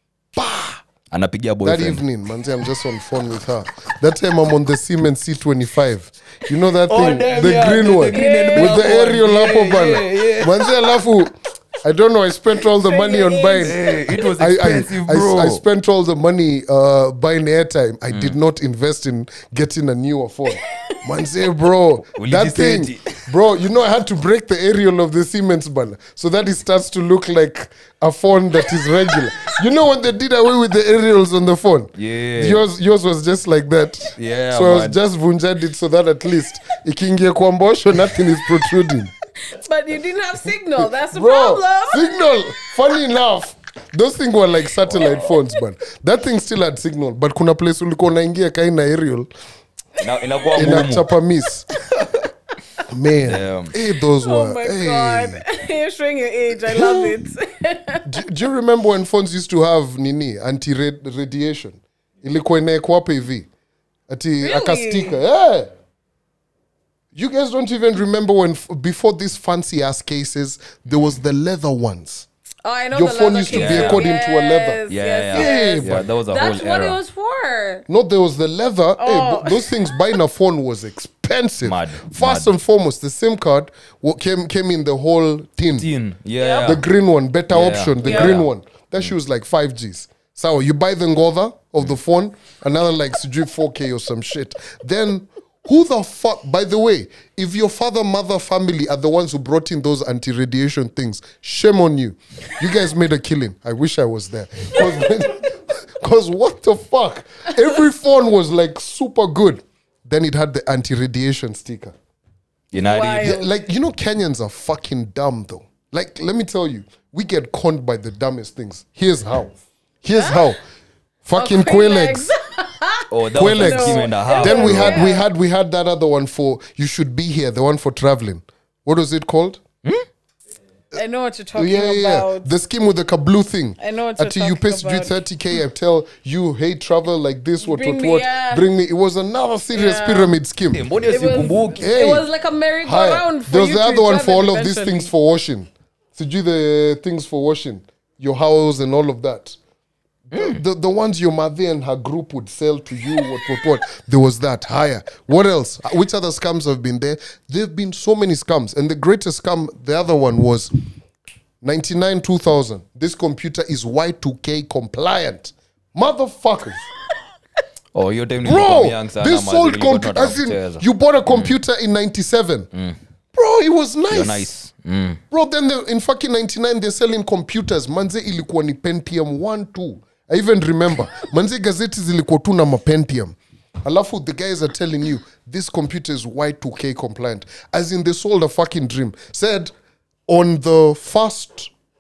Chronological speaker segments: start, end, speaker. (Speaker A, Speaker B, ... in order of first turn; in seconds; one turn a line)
Speaker A: 0.3-0.8
Speaker B: 1.1-2.0
Speaker A: 1.6-13.8
Speaker B: 6.8-10.7
Speaker C: 8.1-8.9
Speaker C: 12.8-13.8
Speaker B: 13.6-15.6
Speaker A: 14.4-39.1
Speaker B: 18.1-18.4
Speaker B: 22.2-23.4
Speaker B: 32.0-32.6
Speaker B: 34.2-35.0
Speaker C: 39.4-42.4
Speaker A: 40.8-49.3
Speaker B: 50.0-51.1
Speaker A: 50.5-51.7
Speaker A: 52.9-55.4
Speaker B: 53.2-53.7
Speaker C: 54.2-58.1
Speaker A: 56.7-57.2
Speaker A: 58.1-63.5
Speaker A: 64.1-65.7
Speaker C: 64.4-65.2
Speaker A: 67.1-72.3
Speaker C: 72.6-77.8
Speaker A: 72.9-76.1
Speaker B: 73.5-74.0
Speaker B: 74.9-77.0
Speaker A: 77.9-85.9
Speaker C: 79.0-80.0
Speaker B: 81.6-82.5
Speaker B: 85.8-86.8
Speaker C: 86.4-86.8
Speaker A: 86.6-112.0
Speaker B: 87.5-88.5
Speaker C: 88.0-88.4
Speaker B: 112.7-113.4
Speaker C: 112.7-113.5
Speaker A: 113.2-120.6
Speaker C: 120.2-120.6
Speaker A: 121.2-122.3
Speaker C: 121.4-125.2
Speaker B: 123.1-125.1
Speaker A: 123.3-129.6
Speaker C: 130.9-132.5
Speaker A: 131.6-140.9
Speaker C: 133.8-135.2
Speaker C: 137.6-138.6
Speaker C: 139.7-140.4
Speaker B: 140.7-141.9
Speaker C: 141.1-145.1
Speaker A: 141.8-142.3
Speaker A: 142.8-149.6
Speaker A: 150.3-160.7
Speaker B: 150.3-150.6
Speaker A: 161.6-166.9
Speaker B: 167.9-171.5
Speaker A: 168.4-172.7
Speaker A: 173.3-174.5
Speaker B: 174.1-175.2
Speaker A: 175.3-189.7
Speaker A: 190.3-191.7